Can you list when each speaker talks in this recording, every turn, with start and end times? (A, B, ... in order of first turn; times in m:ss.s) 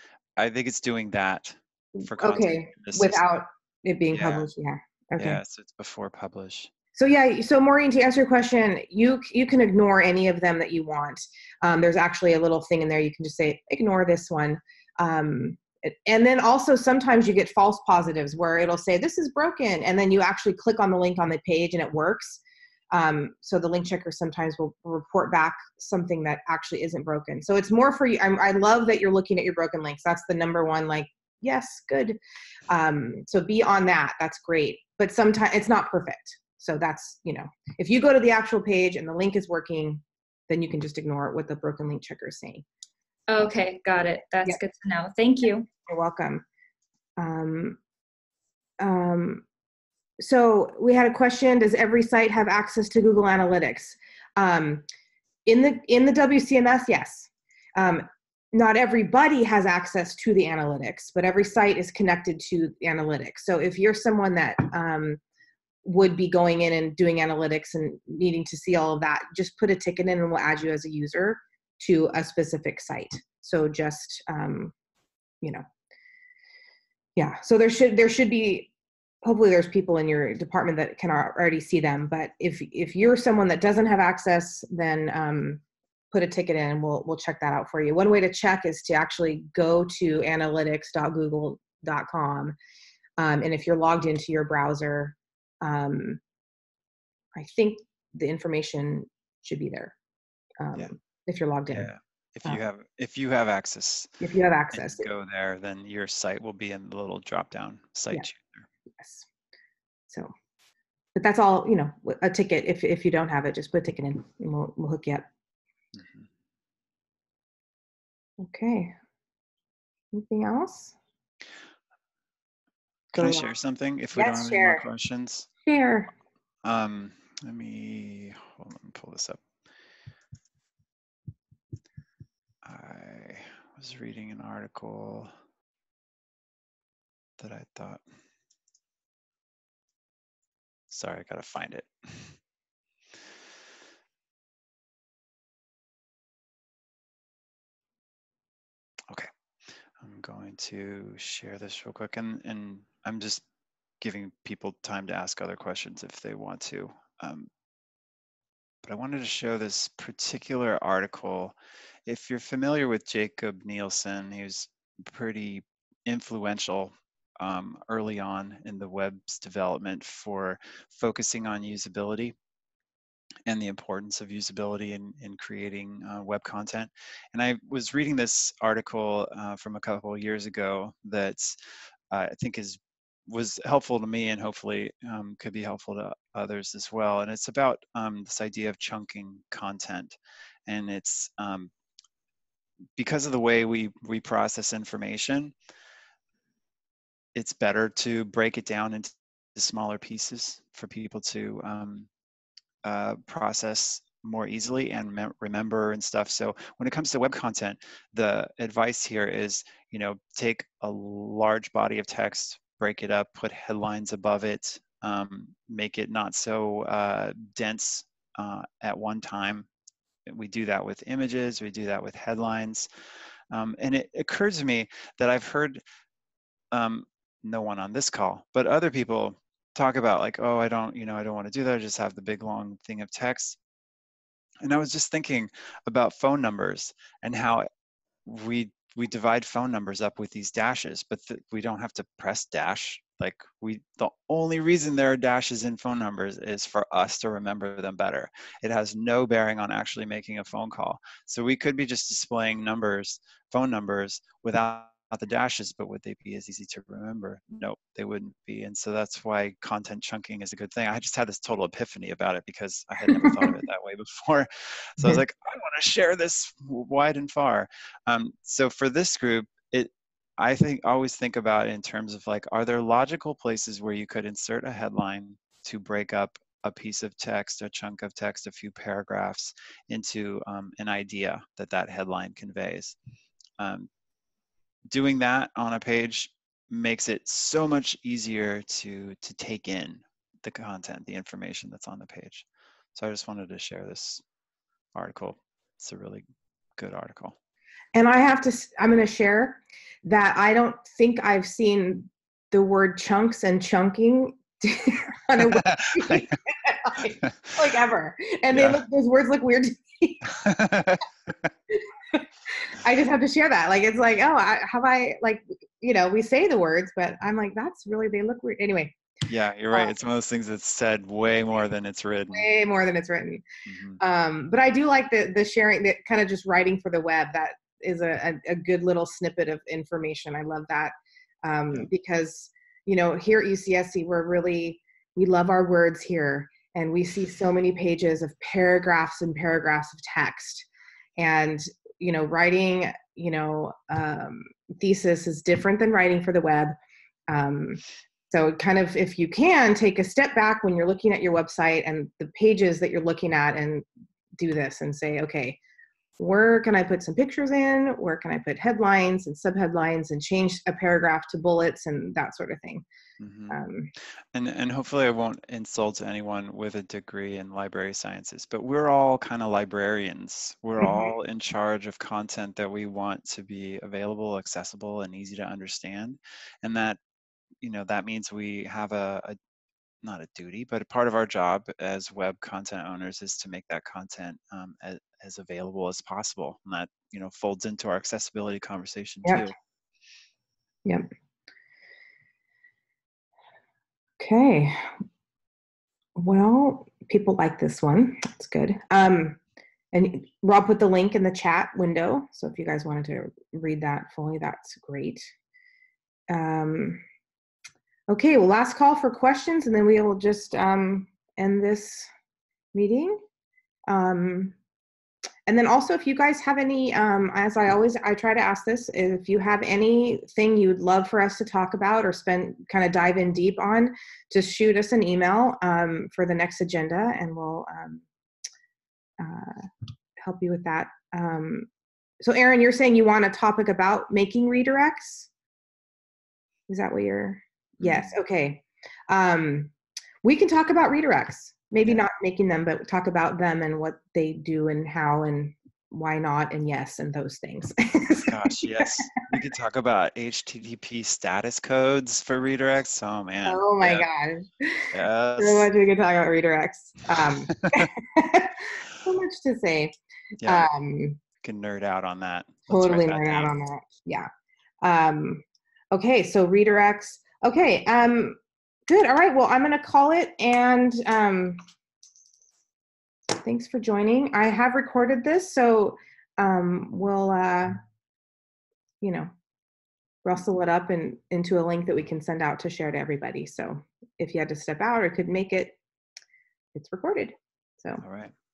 0:00.4-0:03.2 A
0:01.9-0:05.4 B
0:04.1-0:04.5 A
0:05.2-0:06.7 A
0:06.9-0:22.4 B
0:22.9-0:32.2 B
0:32.7-0:42.6 B
0:43.3-0:45.7 C
0:45.9-0:46.4 B
0:47.2-0:47.8 B
0:48.8-0:49.4 B
0:50.2-0:54.8 B
0:55.4-1:05.2 B
1:05.8-1:14.7 B
1:17.2-1:18.7 B
1:19.2-1:25.6 B
1:26.1-1:32.6 B
1:33.2-1:36.2 B
1:37.4-1:39.9 B
1:40.6-1:41.9 B
1:41.7-1:44.1 A
1:44.2-1:45.1 B
1:44.7-1:48.7 A
1:49.0-1:49.3 B
1:50.1-1:50.3 B
1:51.1-1:55.3 B
1:56.0-1:56.3 A
1:58.4-1:58.9 B
2:00.1-2:00.9 B
2:03.1-2:05.5 A
2:03.2-2:03.5 B
2:04.1-2:04.8 B
2:05.6-2:06.1 B
2:06.6-2:09.4 A
2:12.6-2:15.3 A
2:17.4-2:18.0 A
2:20.9-2:22.4 A
2:30.0-2:33.4 A
2:34.0-2:37.5 A
2:38.8-2:52.3 A
2:53.5-3:01.6 A
3:02.1-3:11.7 A
3:13.0-3:15.5 A
3:17.3-3:22.1 A
3:22.8-3:39.7 A
3:40.2-3:42.9 A
3:43.5-3:45.8 A
3:46.7-3:53.6 A
3:54.6-3:57.7 A
3:58.2-4:43.0 A
4:23.1-4:23.5 B
4:43.6-4:43.9 A
4:44.9-4:54.2 A
4:54.9-4:56.2 A
4:56.8-4:57.4 A
4:57.9-5:10.3 B
5:05.4-5:06.3 A
5:08.5-5:08.8 A
5:10.4-5:11.0 A
5:11.7-5:19.0 B
5:19.3-5:22.5 A
5:22.3-5:23.4 B
5:23.6-5:24.0 A
5:24.0-5:40.7 B
5:41.2-5:46.8 B
5:47.3-5:53.8 B
5:54.4-5:55.6 B
5:56.2-6:02.8 B
6:03.2-6:03.6 A
6:03.5-6:03.9 B
6:04.3-6:17.0 A
6:10.8-6:11.1 B
6:17.6-6:19.4 A
6:20.0-6:29.5 A
6:34.2-6:34.9 B
6:36.2-6:39.4 B
6:39.9-6:45.3 B
6:46.3-6:47.0 B
6:48.1-6:52.1 B
6:52.7-6:53.2 B
6:53.9-6:54.6 B
6:55.5-7:08.0 B
7:09.2-7:09.7 B
7:10.2-7:11.7 B
7:12.2-7:15.3 B
7:16.7-7:19.7 B
7:17.8-7:18.1 A
7:20.2-7:28.9 B
7:28.1-7:34.1 A
7:33.4-7:39.9 B
7:34.9-7:35.7 A
7:37.6-7:37.9 A
7:40.4-7:40.7 A
7:40.4-7:41.2 B
7:41.4-7:43.5 A
7:42.7-7:44.3 B
7:44.8-7:51.6 B
7:53.4-7:57.8 B
7:59.0-7:59.3 B
8:00.2-8:05.8 B
8:06.7-8:08.0 B
8:08.0-8:08.3 A